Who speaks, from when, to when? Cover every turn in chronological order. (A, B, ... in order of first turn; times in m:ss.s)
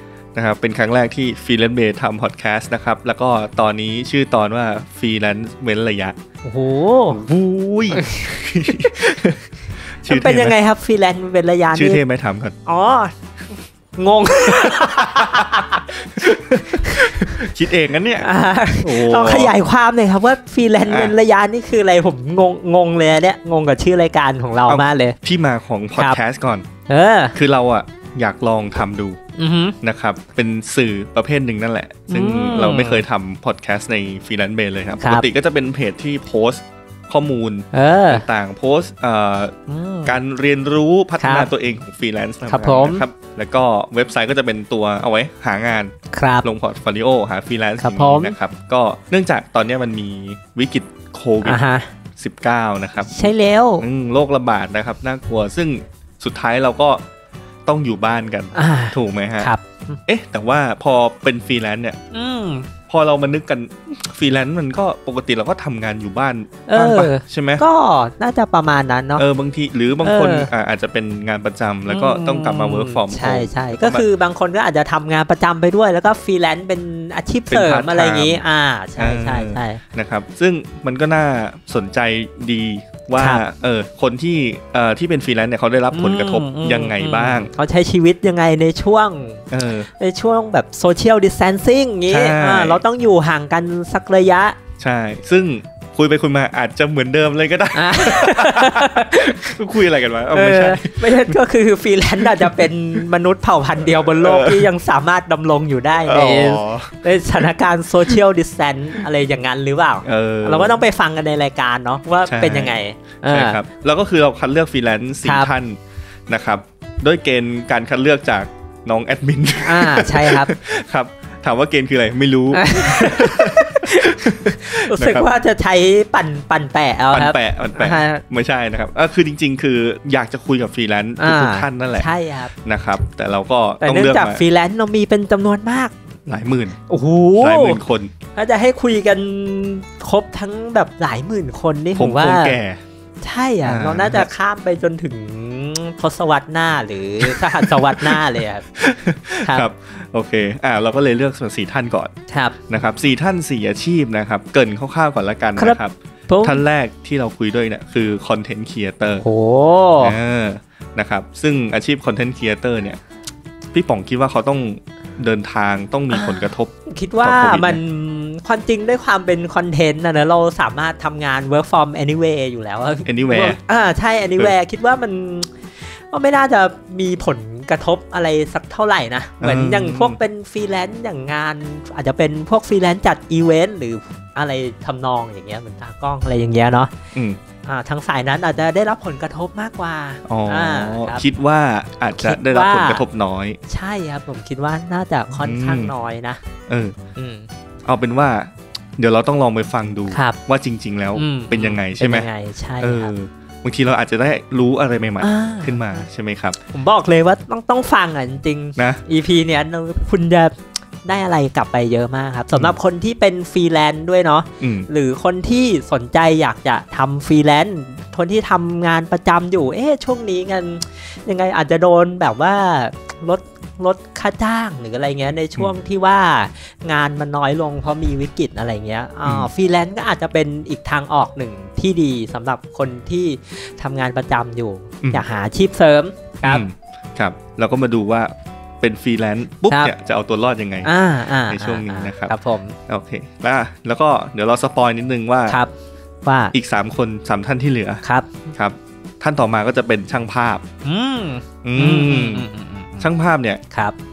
0:00.3-0:06.2 A
0:06.4-0:07.2 B
0:07.1-0:09.5 A
0:07.9-0:09.0 B
0:10.0-0:10.6 A
0:10.1-0:12.0 B
0:11.7-0:12.6 A
0:12.7-0:13.1 B
0:14.0-0:17.4 B
0:14.6-0:18.3 A
0:18.2-0:25.2 B
0:18.8-0:19.5 A
0:20.9-0:21.2 A
0:24.7-0:26.7 A
0:26.9-0:27.4 B
0:27.4-0:29.2 A
0:29.4-0:29.8 B
0:29.8-0:51.6 A
0:32.1-0:33.0 B
0:35.0-0:35.3 B
0:37.7-0:38.2 B
0:39.7-0:40.2 B
0:41.2-0:41.5 B
0:42.5-0:43.0 B
0:46.1-0:46.5 B
0:47.8-0:48.4 B
0:51.4-0:51.9 B
0:52.2-0:57.0 A
0:53.1-0:53.9 B
0:57.7-0:59.5 A
0:58.5-1:00.0 B
1:00.1-1:02.0 A
1:02.1-1:02.7 B
1:02.9-1:07.6 A
1:06.7-1:09.2 B
1:09.2-1:14.0 A
1:10.0-1:10.5 B
1:11.9-1:19.8 B
1:17.5-1:18.4 A
1:19.0-1:27.5 A
1:23.2-1:23.4 B
1:25.9-1:34.6 B
1:29.5-1:29.9 A
1:32.1-1:32.8 A
1:34.8-1:41.4 A
1:37.7-1:39.4 B
1:40.3-1:53.6 B
1:42.2-1:43.0 A
1:43.8-1:44.7 A
1:46.0-1:47.5 A
1:50.0-1:50.8 A
1:52.3-1:52.8 A
1:53.3-1:55.8 A
1:55.2-1:55.5 B
1:56.3-2:05.3 A
1:59.6-2:00.5 B
2:02.5-2:08.2 B
2:07.1-2:14.4 A
2:11.2-2:12.5 B
2:13.8-2:16.0 B
2:16.3-2:16.8 A
2:16.9-2:17.8 B
2:17.4-2:18.1 A
2:18.4-2:22.6 B
2:22.0-2:22.8 A
2:23.2-2:28.7 B
2:23.6-2:24.3 A
2:27.2-2:28.2 A
2:28.8-2:32.1 A
2:32.3-2:32.7 B
2:32.7-2:39.2 A
2:35.6-2:36.6 B
2:39.2-2:40.2 B
2:40.0-2:43.0 A
2:43.7-2:47.8 A
2:46.1-3:06.9 B
2:53.0-2:53.6 A
2:59.4-3:00.2 A
3:07.1-3:07.4 A
3:07.7-3:11.2 B
3:10.3-3:13.6 A
3:12.2-3:13.0 B
3:13.7-3:16.4 B
3:15.4-3:15.9 A
3:16.7-3:17.0 A
3:17.2-3:17.5 B
3:17.8-3:22.3 A
3:20.1-3:20.4 B
3:21.2-3:23.1 B
3:22.8-3:26.6 A
3:25.2-3:26.0 B
3:26.7-3:56.6 B
3:28.8-3:29.0 A
3:34.6-3:34.9 A
3:49.2-3:49.5 A
3:56.4-4:00.9 A
4:00.8-4:02.8 B
4:01.5-4:02.3 A
4:02.9-4:05.6 A
4:06.2-4:06.6 B
4:06.5-4:08.0 A
4:08.0-4:08.5 B
4:08.6-4:10.6 A
4:10.8-4:13.1 B
4:11.6-4:12.5 A
4:13.0-4:13.6 A
4:13.7-4:14.0 B